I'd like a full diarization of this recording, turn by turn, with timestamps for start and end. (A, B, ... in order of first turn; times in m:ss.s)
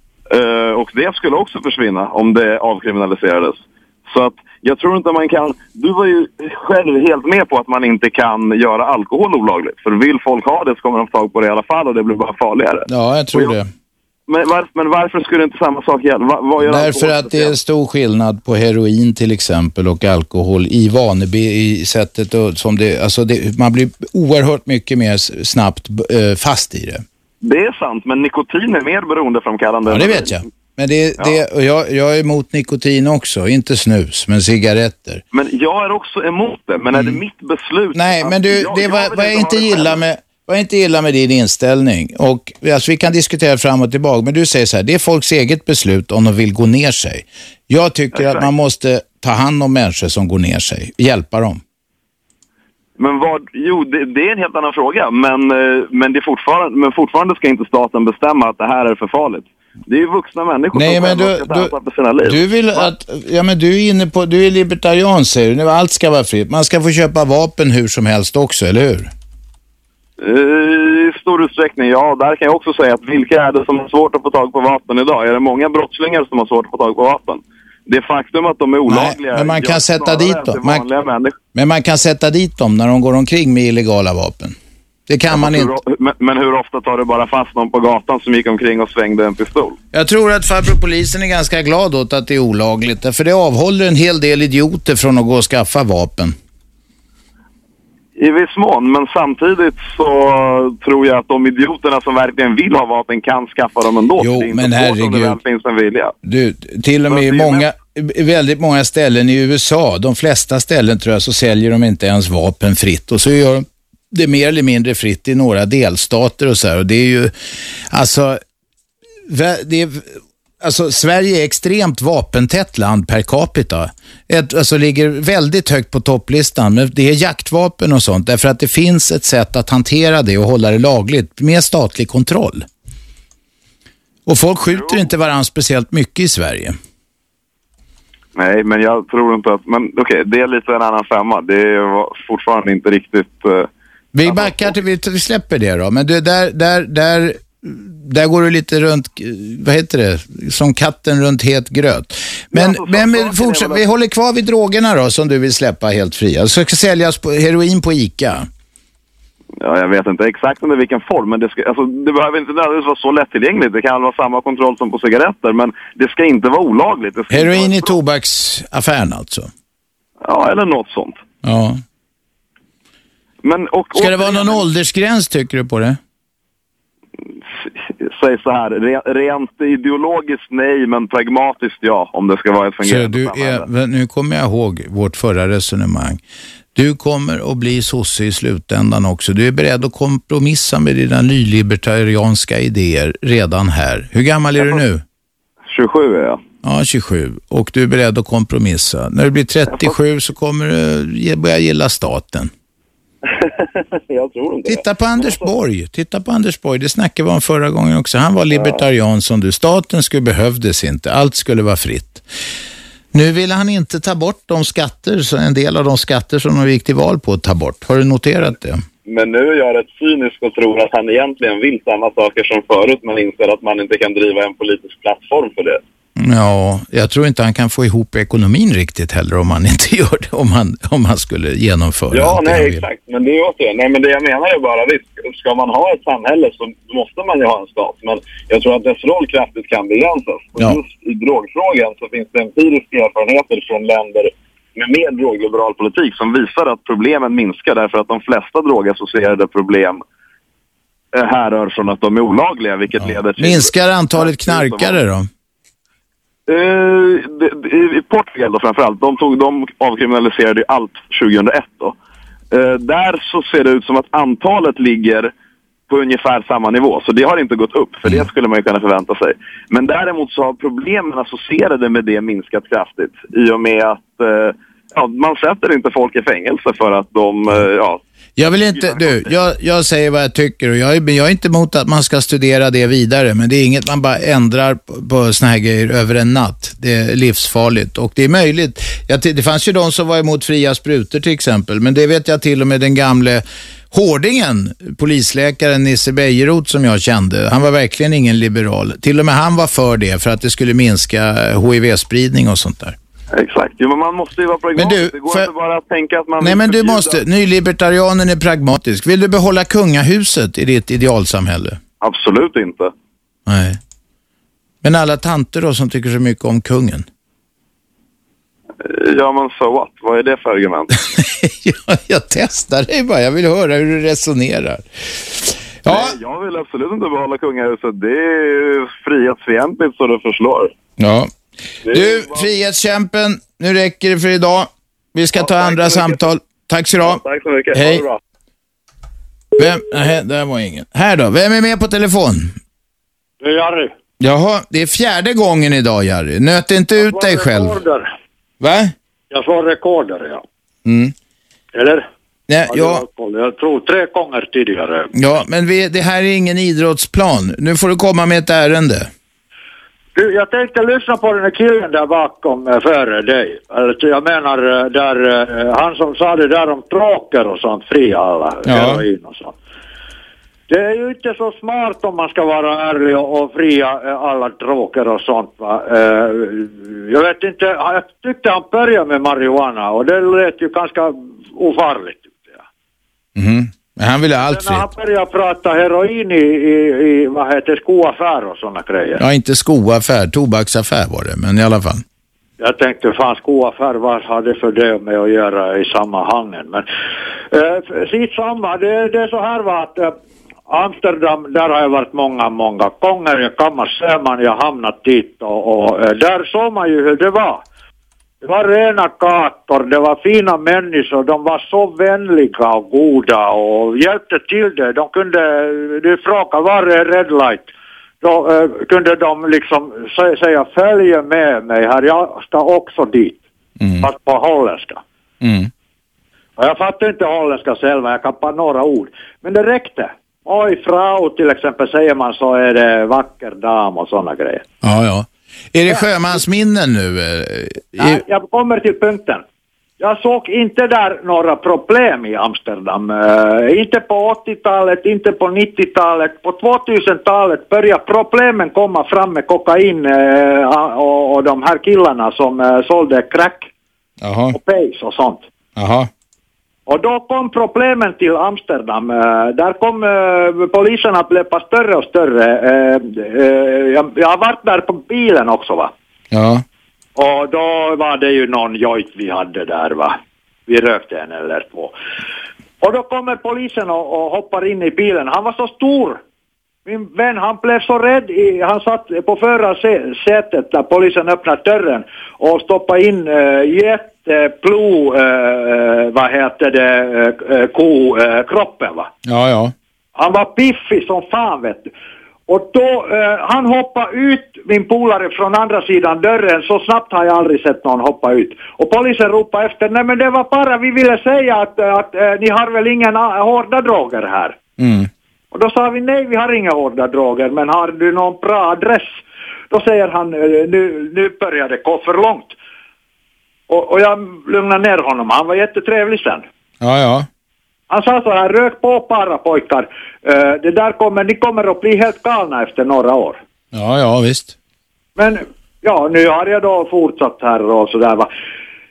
0:00.3-0:13.5 A
0:12.9-0:13.7 B
0:14.3-0:17.5 A
0:16.6-0:27.0 B
0:27.4-0:30.3 A
0:29.9-0:35.2 B
0:35.3-0:40.0 A
0:37.9-0:51.6 B
0:48.1-0:48.5 A
0:53.0-1:02.9 A
1:00.7-1:01.7 B
1:02.2-1:09.1 B
1:10.2-1:21.4 A
1:18.9-1:20.8 B
1:21.5-1:24.6 B
1:25.1-1:25.7 B
1:25.3-1:29.8 A
1:29.9-1:36.4 B
1:38.2-1:46.1 A
1:44.2-1:45.4 B
1:46.2-1:57.3 B
1:47.1-1:47.6 A
1:57.9-1:58.4 B
1:59.3-2:12.6 B
2:14.3-2:16.8 B
2:14.7-2:15.0 A
2:18.4-2:23.7 A
2:24.2-2:38.5 B
2:24.3-2:24.7 A
2:32.5-2:33.8 A
2:39.6-2:47.9 A
2:47.3-2:49.5 B
2:50.2-2:51.2 A
2:51.4-2:51.8 B
2:53.4-2:54.6 A
2:53.9-2:56.0 B
2:57.5-3:03.6 A
3:02.8-3:06.2 B
3:06.7-3:15.0 B
3:15.7-3:16.4 A
3:16.6-3:22.5 B
3:23.3-3:25.4 A
3:24.6-3:32.2 B
3:28.5-3:28.8 A
3:33.1-3:38.8 B
3:39.1-3:45.8 A
3:46.2-3:52.8 B
3:52.1-4:10.0 A
4:11.1-4:15.0 A
4:13.0-4:15.3 B
4:16.5-4:21.9 A
4:22.5-4:25.3 A
4:25.9-4:38.0 A
4:38.4-5:03.0 B
4:38.7-4:39.3 A
5:03.4-5:07.2 A
5:04.8-5:05.5 B
5:06.4-5:11.8 B
5:12.0-5:12.9 A
5:13.4-5:13.8 B
5:14.8-5:17.1 B
5:18.8-5:20.9 A
5:21.1-5:26.1 B
5:25.9-5:30.7 A
5:31.0-5:31.3 B
5:31.9-5:37.2 B
5:31.9-5:32.5 A
5:35.4-5:36.2 A
5:37.0-5:38.2 A
5:37.7-5:38.0 B
5:39.6-5:42.6 B
5:43.4-5:43.9 C
5:44.2-5:47.8 B
5:47.0-5:48.1 C
5:48.6-5:48.9 B
5:49.3-5:50.4 C
5:50.9-5:51.1 B
5:51.7-5:52.0 C
5:52.5-5:53.0 B
5:52.7-5:55.1 C
5:55.2-5:59.1 B
6:00.2-6:09.5 C
6:08.6-6:09.0 B
6:10.7-6:22.6 C
6:23.4-6:24.8 B
6:24.4-6:29.2 C
6:29.2-6:32.0 B
6:32.6-6:36.8 C
6:37.5-6:40.0 C
6:40.7-6:47.6 C
6:48.4-6:57.7 C
6:58.2-7:03.4 C
7:03.8-7:04.1 B
7:04.0-7:05.0 C
7:05.4-7:05.7 B
7:06.6-7:14.6 C
7:14.8-7:18.2 B
7:18.0-7:19.4 C
7:20.0-7:33.7 C
7:34.2-7:34.6 B
7:34.5-7:35.4 C
7:35.8-7:36.1 B
7:36.9-7:45.9 C
7:46.3-7:46.6 B
7:47.2-7:50.1 C
7:50.7-7:51.9 C
7:52.8-7:56.2 C
7:56.9-8:09.1 C
8:09.3-8:09.7 B
8:10.2-8:11.9 C
8:12.5-8:24.6 C
8:24.8-8:25.1 B
8:25.5-8:29.2 C
8:29.7-8:32.5 C
8:33.7-8:36.4 C
8:36.8-8:37.3 B
8:37.9-8:43.4 C
8:43.7-8:44.6 B
8:45.2-8:48.3 C